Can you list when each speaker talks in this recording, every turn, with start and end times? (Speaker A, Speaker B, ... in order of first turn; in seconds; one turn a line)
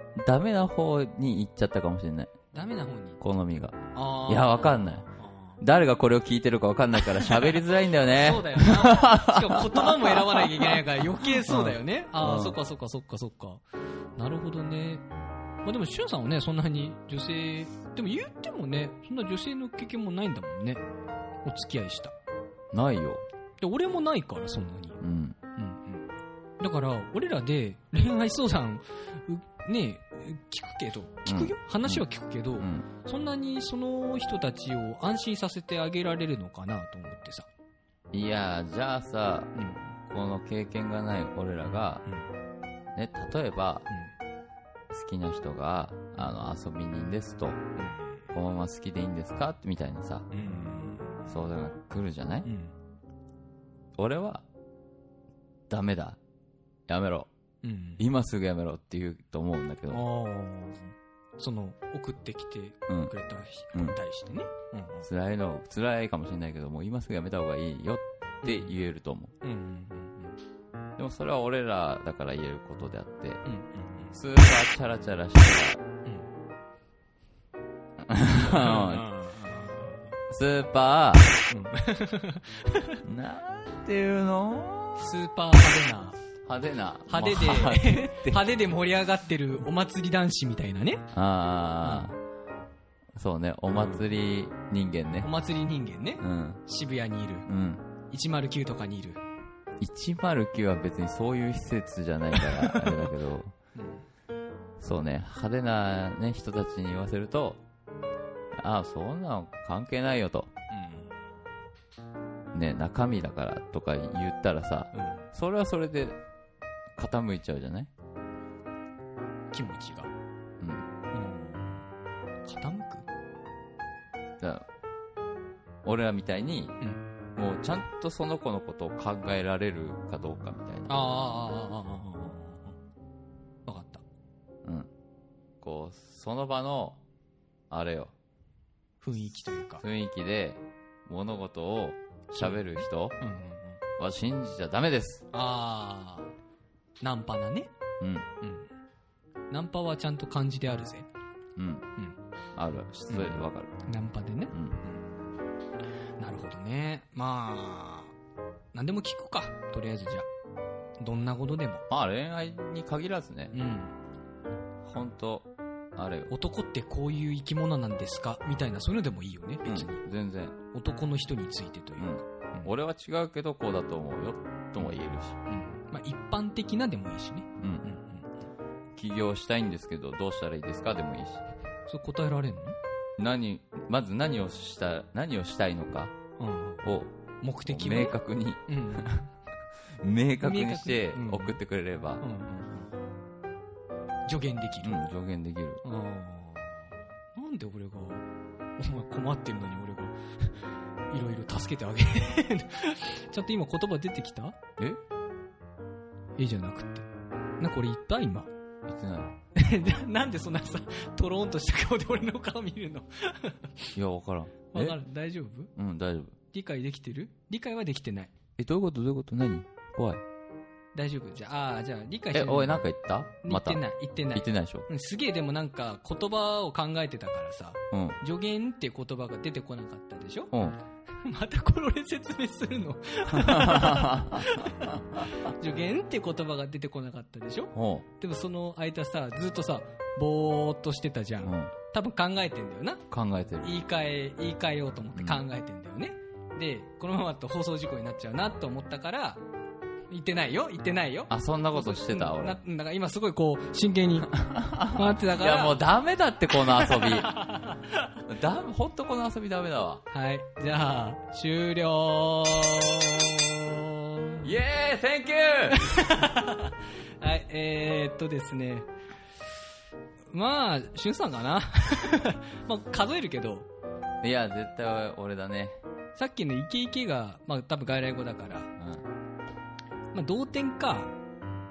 Speaker A: 0.2-2.3
Speaker B: 2.5-3.2
Speaker A: 3.2-5.0
Speaker B: 3.9-5.6
Speaker A: 5.6-10.8
Speaker B: 7.2-13.6
Speaker A: 11.4-12.6
Speaker B: 14.2-15.1
Speaker B: 15.6-20.8
Speaker B: 21.4-22.1
Speaker A: 22.7-23.2
Speaker B: 23.6-25.0
Speaker A: 25.0-25.4
Speaker B: 25.6-26.1
Speaker B: 26.6-37.5
Speaker A: 31.3-32.9
Speaker A: 38.1-39.5
Speaker B: 39.5-40.0
Speaker A: 40.1-42.0
Speaker A: 43.0-43.9
Speaker A: 44.9-47.6
Speaker B: 47.8-48.2
Speaker A: 48.3-50.3
Speaker B: 50.3-51.2
Speaker A: 51.3-52.5
Speaker B: 52.4-52.8
Speaker A: 54.0-54.5
Speaker A: 55.7-56.2
Speaker A: 56.9-57.3
Speaker B: 57.6-58.0
Speaker A: 58.0-60.0
Speaker B: 59.9-65.1
Speaker A: 63.7-64.0
Speaker A: 65.0-69.3
Speaker B: 68.4-68.8
Speaker B: 69.4-70.4
Speaker A: 71.0-73.4
Speaker B: 73.5-74.2
Speaker A: 74.1-75.8
Speaker A: 78.0-79.1
Speaker B: 78.4-80.2
Speaker A: 80.3-81.4
Speaker B: 81.5-83.0
Speaker A: 83.0-85.1
Speaker B: 85.0-86.2
Speaker A: 86.5-88.4
Speaker B: 87.1-91.1
Speaker A: 91.1-92.1
Speaker B: 91.8-92.2
Speaker A: 93.2-95.3
Speaker B: 95.2-97.5
Speaker A: 96.2-96.6
Speaker A: 97.5-97.8
Speaker B: 98.1-99.2
Speaker A: 99.8-103.5
Speaker B: 102.4-103.1
Speaker B: 103.8-104.0
Speaker A: 104.8-107.6
Speaker A: 108.6-110.5
Speaker B: 110.7-111.1
Speaker A: 112.5-116.2
Speaker B: 114.9-115.3
Speaker A: 117.0-117.9
Speaker B: 119.5-120.1
Speaker A: 120.6-120.9
Speaker B: 121.1-121.9
Speaker B: 122.4-123.1
Speaker A: 124.4-124.7
Speaker A: 125.8-126.8
Speaker A: 127.4-131.1
Speaker B: 130.9-132.8
Speaker B: 133.7-134.0
Speaker A: 135.6-137.0
Speaker A: 137.7-138.1
Speaker B: 139.0-139.8
Speaker A: 139.8-143.2
Speaker B: 142.3-143.8
Speaker A: 144.0-145.3
Speaker B: 145.3-146.3
Speaker B: 147.0-147.7
Speaker A: 148.0-148.3
Speaker B: 148.4-148.7
Speaker B: 149.5-151.1
Speaker A: 151.6-151.9
Speaker A: 152.6-153.7
Speaker B: 153.1-154.9
Speaker A: 154.5-154.8
Speaker B: 156.2-158.1
Speaker B: 158.7-160.3
Speaker B: 161.0-161.8
Speaker A: 161.9-163.6
Speaker B: 163.5-164.0
Speaker A: 164.8-166.3
Speaker B: 166.3-170.0
Speaker A: 169.7-170.6
Speaker B: 170.7-172.7
Speaker A: 172.0-175.4
Speaker B: 175.5-178.3
Speaker A: 177.6-177.9
Speaker A: 179.0-181.4
Speaker B: 181.9-182.8
Speaker A: 183.2-186.1
Speaker B: 186.4-186.8
Speaker A: 186.8-187.1
Speaker B: 187.4-189.3
Speaker A: 187.6-189.2
Speaker A: 190.0-192.2
Speaker B: 190.4-191.6
Speaker B: 192.2-192.9
Speaker B: 194.3-195.0
Speaker A: 194.8-195.8
Speaker B: 195.8-198.3
Speaker B: 198.8-204.6
Speaker B: 206.4-207.1
Speaker B: 207.6-208.5
Speaker A: 208.9-209.3
Speaker B: 209.6-214.0
Speaker A: 214.0-215.0
Speaker B: 214.7-215.7
Speaker A: 215.8-216.4
Speaker B: 216.5-218.3
Speaker A: 218.6-220.2
Speaker B: 220.9-222.9
Speaker A: 222.3-224.9
Speaker B: 223.4-230.5
Speaker A: 227.9-228.2
Speaker A: 230.5-230.8
Speaker B: 231.1-243.1
Speaker A: 233.3-235.2
Speaker A: 237.7-238.1
Speaker A: 241.4-241.7
Speaker A: 243.1-243.7
Speaker B: 243.6-249.4
Speaker A: 245.2-245.5
Speaker B: 250.1-255.8
Speaker A: 251.3-252.6
Speaker A: 254.3-257.4
Speaker B: 256.6-258.2
Speaker A: 258.2-260.0
Speaker B: 260.1-264.5
Speaker A: 264.4-266.1
Speaker B: 265.7-268.9
Speaker B: 270.3-273.7
Speaker A: 274.2-275.8
Speaker B: 276.1-278.7
Speaker A: 278.8-279.1
Speaker B: 280.1-281.1